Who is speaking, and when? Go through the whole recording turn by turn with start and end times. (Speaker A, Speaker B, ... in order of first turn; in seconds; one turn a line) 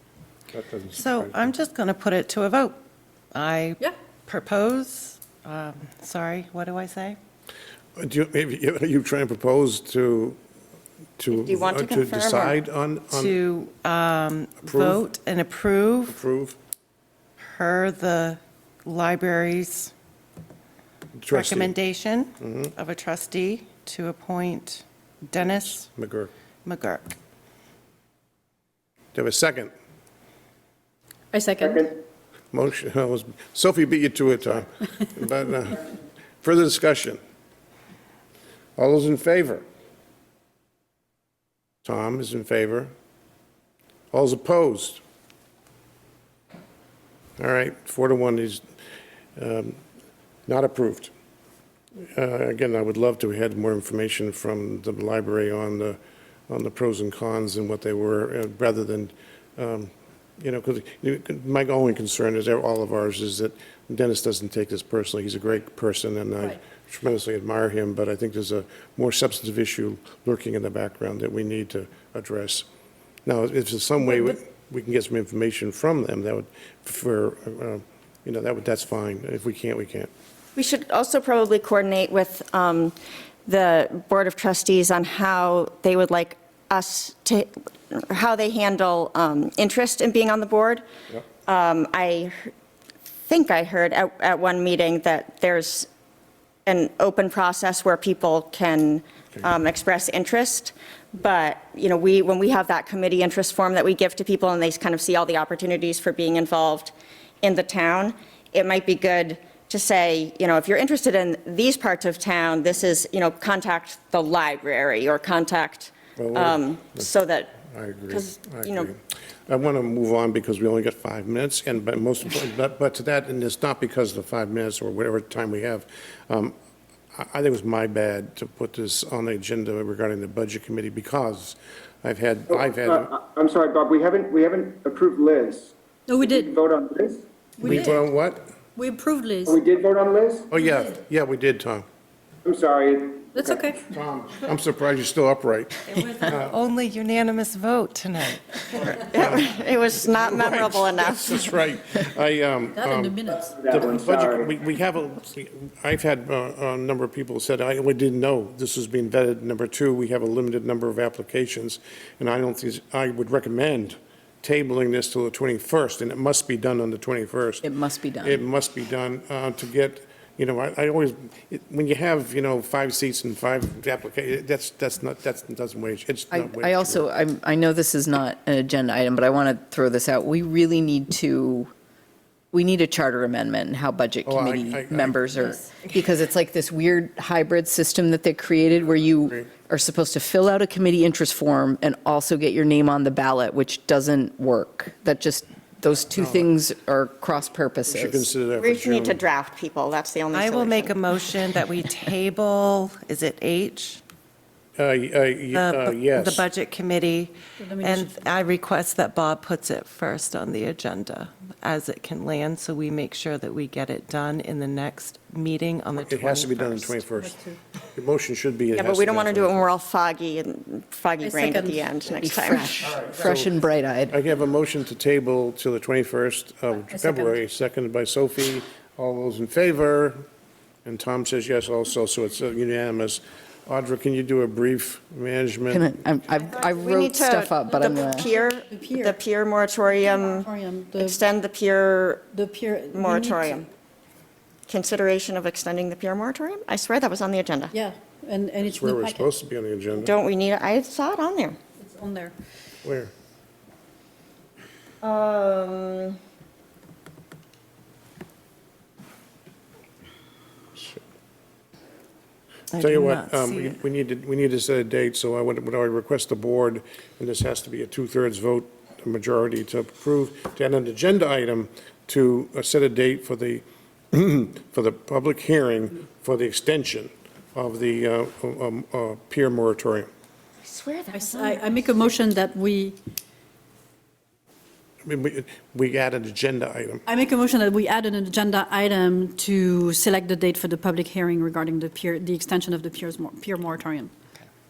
Speaker A: 0.5-1.5
Speaker B: 0.9-2.8
Speaker B: 3.3-7.2
Speaker A: 8.0-10.4
Speaker A: 11.2-13.3
Speaker C: 11.3-12.6
Speaker B: 13.1-16.2
Speaker A: 14.6-15.0
Speaker A: 16.1-16.6
Speaker B: 17.4-19.9
Speaker A: 21.2-21.7
Speaker B: 21.3-25.9
Speaker A: 22.4-22.7
Speaker A: 25.4-26.3
Speaker B: 26.6-27.1
Speaker A: 29.1-29.7
Speaker D: 31.3-31.9
Speaker E: 31.6-32.0
Speaker A: 32.5-35.9
Speaker A: 36.4-37.2
Speaker A: 38.8-39.6
Speaker A: 41.8-42.9
Speaker A: 44.1-45.0
Speaker A: 47.4-48.6
Speaker A: 49.4-49.8
Speaker A: 50.5-51.1
Speaker A: 52.1-56.0
Speaker A: 56.5-72.7
Speaker A: 73.2-80.1
Speaker D: 74.0-74.3
Speaker C: 80.5-90.8
Speaker C: 91.5-92.5
Speaker C: 93.3-95.9
Speaker C: 96.7-117.6
Speaker A: 116.2-119.0
Speaker C: 118.1-118.9
Speaker A: 119.5-126.5
Speaker A: 127.1-133.1
Speaker E: 132.5-137.8
Speaker D: 136.1-136.5
Speaker D: 137.6-138.0
Speaker A: 137.6-138.5
Speaker D: 138.8-139.6
Speaker E: 139.4-140.5
Speaker A: 140.5-141.8
Speaker E: 142.4-143.8
Speaker D: 143.3-143.8
Speaker A: 143.9-146.5
Speaker B: 145.8-149.2
Speaker C: 149.0-151.5
Speaker A: 149.1-167.6
Speaker D: 152.7-153.6
Speaker E: 153.4-154.5
Speaker F: 167.6-168.4
Speaker A: 168.2-177.1
Speaker F: 176.3-181.7
Speaker F: 182.5-198.3
Speaker A: 184.2-185.4
Speaker A: 196.2-196.5
Speaker A: 197.9-199.2
Speaker C: 198.5-201.0
Speaker B: 200.3-204.0
Speaker A: 204.8-206.4
Speaker B: 205.5-217.0
Speaker D: 207.6-208.2
Speaker A: 215.9-217.3
Speaker D: 217.1-217.6
Speaker A: 217.9-219.7
Speaker C: 218.7-222.9
Speaker D: 221.2-221.9
Speaker F: 222.2-224.2
Speaker A: 222.8-223.5
Speaker A: 224.1-230.2
Speaker D: 226.8-227.4
Speaker A: 230.8-235.9
Speaker F: 235.7-238.3
Speaker C: 236.4-242.3
Speaker D: 237.7-239.2
Speaker D: 240.0-241.2
Speaker D: 242.3-243.6
Speaker C: 242.9-243.7
Speaker C: 244.7-247.7
Speaker D: 247.7-249.3
Speaker A: 248.6-250.1
Speaker C: 250.0-251.6
Speaker D: 251.8-252.3
Speaker A: 252.8-253.1
Speaker C: 255.0-256.2
Speaker B: 262.7-263.8
Speaker A: 262.7-280.1
Speaker C: 280.6-281.8
Speaker D: 281.1-283.0
Speaker A: 285.0-287.0
Speaker D: 287.1-294.1